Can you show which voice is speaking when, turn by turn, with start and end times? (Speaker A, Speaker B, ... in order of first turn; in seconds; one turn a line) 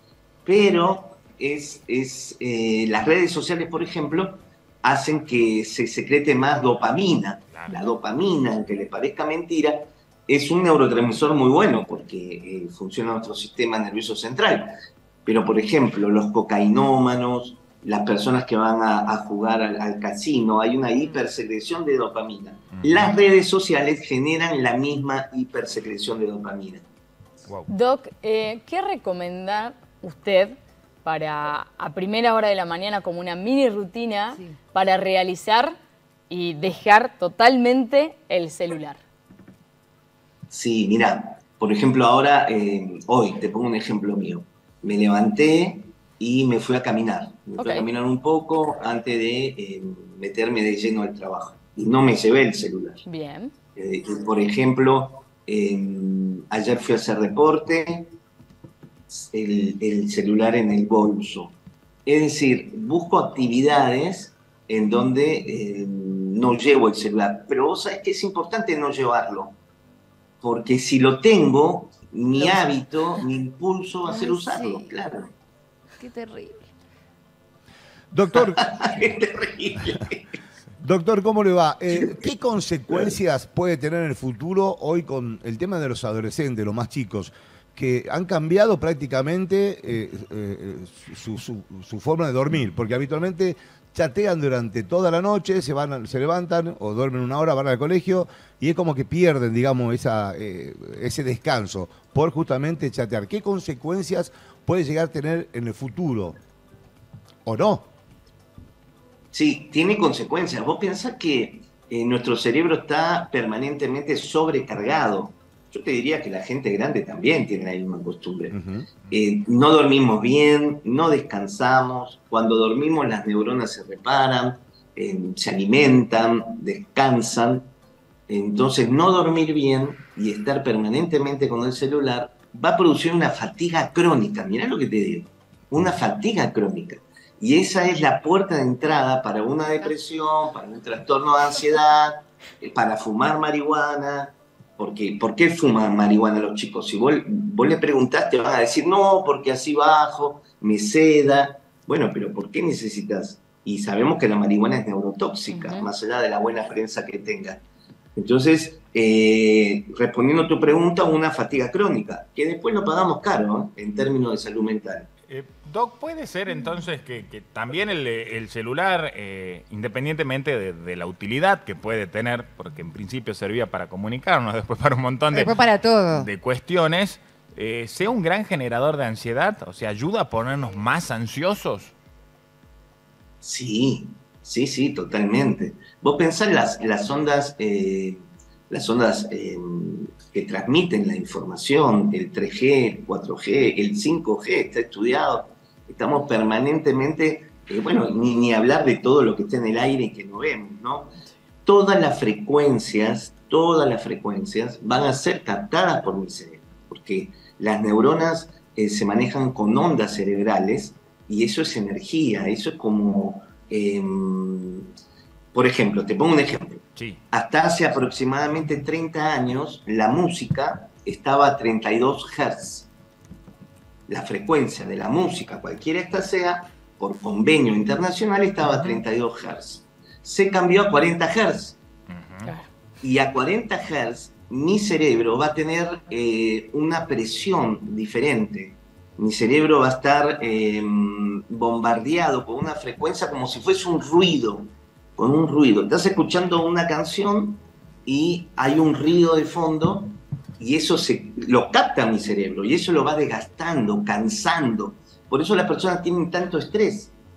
Speaker A: 0.5-14.7
Speaker B: 7.5-7.9
Speaker A: 15.2-26.8
Speaker B: 22.8-23.1
Speaker C: 27.7-35.7
Speaker C: 36.3-39.0
Speaker A: 40.5-53.0
Speaker C: 47.5-47.9
Speaker C: 53.0-53.5
Speaker A: 53.8-58.1
Speaker A: 59.1-69.6
Speaker A: 70.4-75.3
Speaker D: 74.0-74.9
Speaker D: 76.0-76.7
Speaker E: 78.1-78.6
Speaker A: 78.3-80.3
Speaker E: 80.8-106.4
Speaker A: 81.9-82.2
Speaker A: 82.9-83.2
Speaker E: 107.4-107.9
Speaker A: 109.3-118.5
Speaker E: 118.5-118.9
Speaker A: 119.1-127.7
Speaker A: 128.3-157.6
Speaker C: 155.5-155.9
Speaker A: 158.2-165.1
Speaker B: 165.3-175.6
Speaker D: 175.3-176.3
Speaker B: 176.1-181.9
Speaker A: 183.4-201.1
Speaker A: 201.7-214.9
Speaker A: 215.5-222.9
Speaker A: 224.1-231.8
Speaker B: 232.1-232.5
Speaker A: 233.0-257.1